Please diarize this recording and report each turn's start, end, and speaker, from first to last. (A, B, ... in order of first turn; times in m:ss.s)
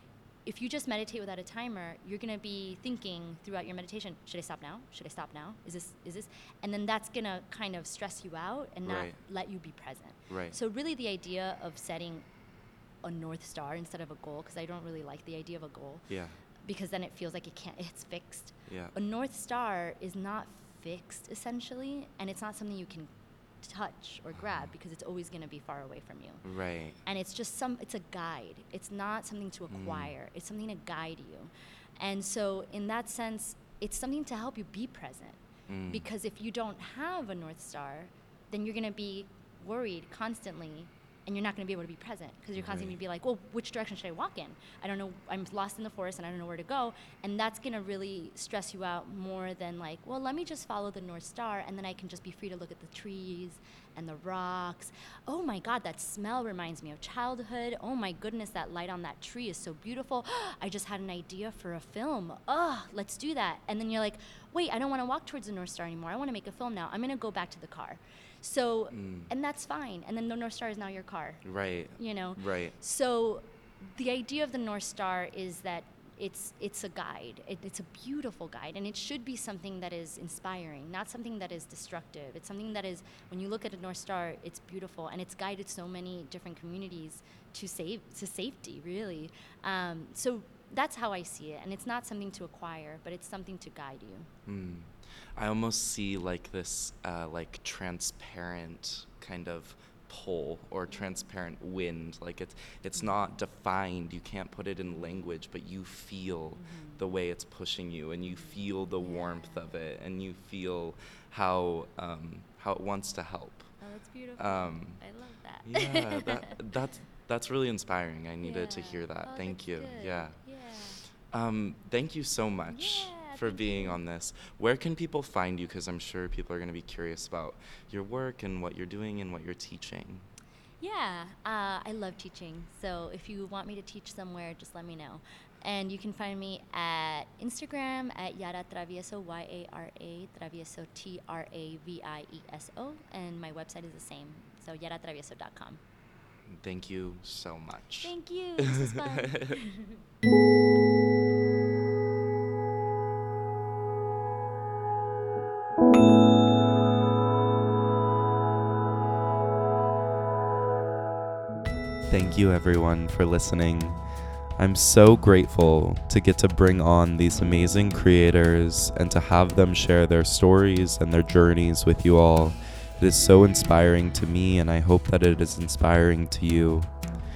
0:00.4-0:12.2 A
0:08.8-0:09.2 B
0:10.3-0:10.6 B
0:13.0-0:16.1 A
0:16.1-0:16.4 B
0:16.6-0:23.1 A
0:18.7-0:18.9 B
0:23.6-0:26.4 A
0:24.4-0:24.6 B
0:26.4-0:27.0 B
0:27.0-1:11.4 A
0:29.7-0:30.1 B
0:35.7-0:36.0 B
0:42.6-0:43.0 B
1:08.9-1:09.3 B
1:11.4-1:12.7 B
1:12.0-1:34.3 A
1:34.5-1:53.7 B
1:46.6-1:47.0 A
1:48.3-1:49.7 A
1:53.8-1:56.5 A
1:54.4-1:55.0 B
1:55.6-2:00.4 B
1:58.4-2:01.0 A
2:01.3-2:10.2 B
2:02.7-2:04.0 A
2:10.8-2:25.8 A
2:26.5-2:28.1 B
2:28.0-2:30.0 A
2:42.1-2:44.0 B
2:44.6-2:56.9 B